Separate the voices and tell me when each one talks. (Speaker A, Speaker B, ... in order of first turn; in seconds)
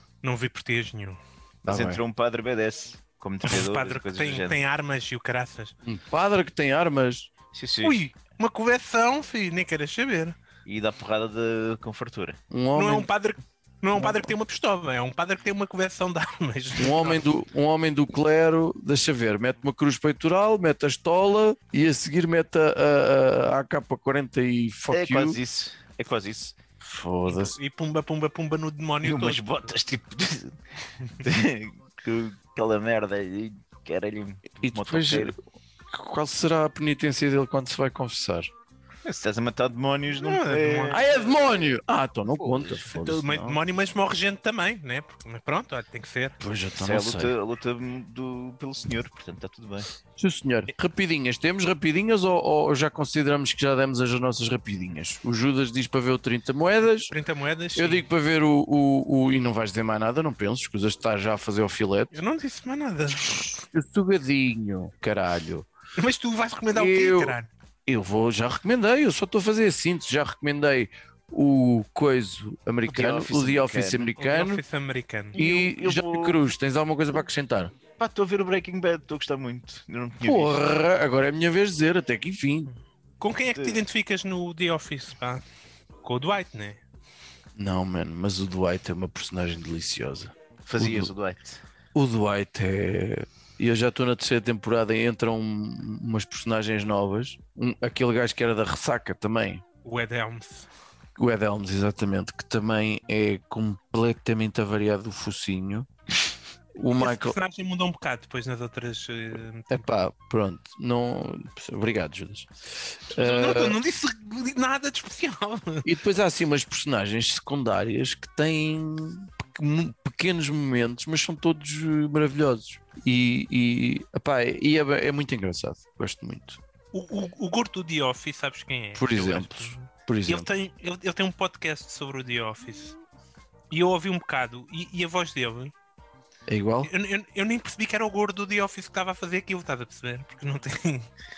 Speaker A: 0.2-1.2, 3.4-5.8, 7.8-10.4, 12.8-17.3, 27.3-29.6, 40.1-41.0, 42.9-46.4, 57.1-58.1, 62.1-63.5, 66.0-67.5, 74.2-75.4, 83.2-85.4, 86.0-86.8, 99.8-100.7, 107.0-109.8, 113.2-115.9, 126.9-133.0, 133.7-135.7, 136.8-141.1
Speaker B: 1.6-4.6, 7.5-8.0, 10.7-12.4, 24.9-26.6, 29.0-30.6, 31.2-35.4, 39.0-41.5, 42.4-42.8, 46.8-49.9, 72.9-74.2, 75.3-76.4, 78.0-80.6, 83.5-83.8, 90.7-91.6
Speaker C: 1.7-2.0, 5.8-7.3, 12.5-13.1, 14.0-14.3, 16.8-25.4, 26.8-27.6, 34.6-35.4, 35.9-38.5, 40.9-43.6, 46.4-47.3, 50.2-57.1, 57.8-62.2, 63.2-65.7, 66.7-74.6, 75.3-77.8, 80.2-82.7, 87.6-91.1, 92.0-99.6, 101.2-105.9, 106.8-107.4, 109.7-113.8, 115.8-126.6, 129.0-130.5, 136.5-136.9